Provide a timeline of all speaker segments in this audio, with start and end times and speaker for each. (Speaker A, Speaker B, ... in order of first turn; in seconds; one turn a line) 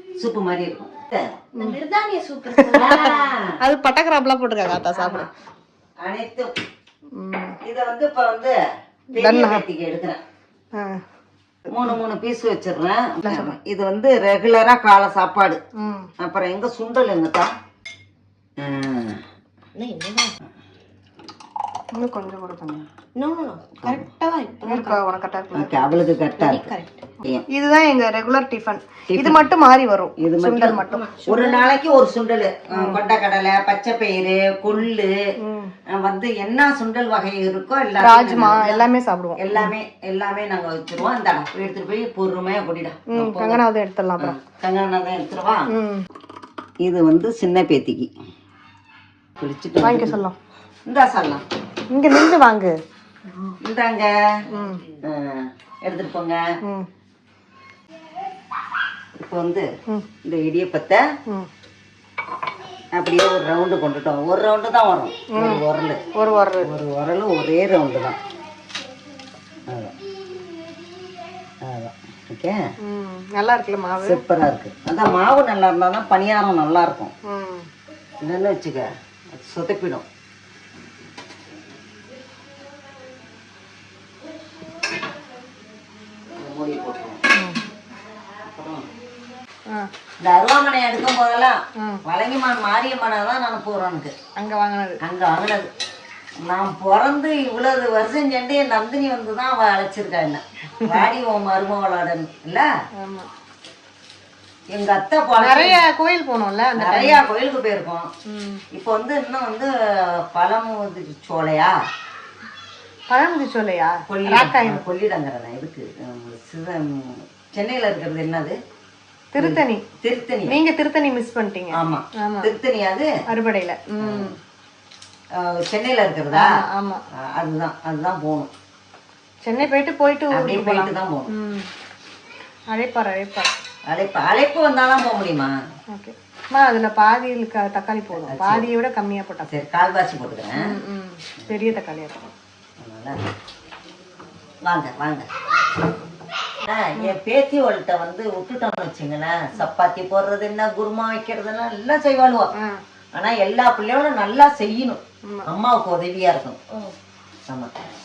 Speaker A: 0.2-1.3
Speaker B: 1.5-3.3
Speaker C: 2.5-5.3
Speaker A: 2.7-3.5
Speaker A: 4.9-5.3
Speaker A: 6.0-6.5
Speaker C: 7.2-7.5
Speaker A: 7.6-8.6
Speaker A: 9.1-10.2
Speaker C: 9.2-9.6
Speaker C: 10.7-11.0
Speaker A: 11.7-15.6
Speaker C: 13.2-13.5
Speaker C: 15.8-16.1
Speaker A: 16.2-17.5
Speaker A: 18.6-19.2
Speaker B: 19.7-20.3
Speaker C: 21.9-22.8
Speaker B: 23.1-25.0
Speaker C: 24.6-25.9
Speaker A: 25.5-26.7
Speaker B: 26.4-27.0
Speaker C: 27.5-31.2
Speaker A: 29.1-29.4
Speaker A: 30.2-35.1
Speaker B: 30.9-31.6
Speaker C: 32.7-33.0
Speaker C: 35.4-35.7
Speaker A: 35.9-38.8
Speaker C: 38.0-39.7
Speaker A: 39.4-43.6
Speaker C: 43.1-44.4
Speaker A: 44.2-45.7
Speaker C: 45.7-46.0
Speaker A: 46.8-48.1
Speaker A: 49.4-50.1
Speaker C: 49.8-50.4
Speaker A: 50.9-51.4
Speaker C: 51.9-52.8
Speaker A: 53.6-54.1
Speaker C: 54.5-54.8
Speaker A: 55.0-56.4
Speaker A: 59.2-59.7
Speaker A: 60.2-61.0
Speaker A: 62.9-66.0
Speaker C: 65.3-65.6
Speaker C: 66.1-66.7
Speaker A: 66.6-68.2
Speaker A: 69.7-69.9
Speaker A: 71.6-72.6
Speaker C: 72.8-74.2
Speaker A: 74.0-77.1
Speaker C: 77.2-77.7
Speaker A: 78.2-80.0
Speaker A: 86.3-87.2
Speaker C: 87.3-87.6
Speaker A: 88.5-88.8
Speaker A: 90.2-94.1
Speaker C: 94.4-95.0
Speaker A: 95.0-95.7
Speaker A: 96.4-102.7
Speaker C: 100.8-101.1
Speaker C: 103.0-103.3
Speaker A: 104.7-105.8
Speaker C: 105.4-107.2
Speaker A: 106.8-108.1
Speaker C: 108.3-108.6
Speaker A: 108.7-111.7
Speaker C: 113.1-114.8
Speaker A: 114.1-118.6
Speaker C: 119.3-119.8
Speaker A: 119.4-120.6
Speaker C: 120.5-122.5
Speaker A: 121.7-123.1
Speaker C: 123.3-124.3
Speaker A: 124.0-124.3
Speaker A: 125.3-126.5
Speaker C: 126.3-127.0
Speaker A: 127.1-128.5
Speaker C: 129.4-131.7
Speaker A: 130.3-131.3
Speaker C: 132.7-133.5
Speaker A: 133.9-135.5
Speaker C: 135.9-139.5
Speaker A: 138.2-138.7
Speaker A: 139.5-140.8
Speaker C: 140.6-142.3
Speaker A: 142.8-143.2
Speaker A: 144.6-145.2
Speaker A: 146.6-152.5
Speaker C: 152.5-152.8
Speaker A: 153.1-156.6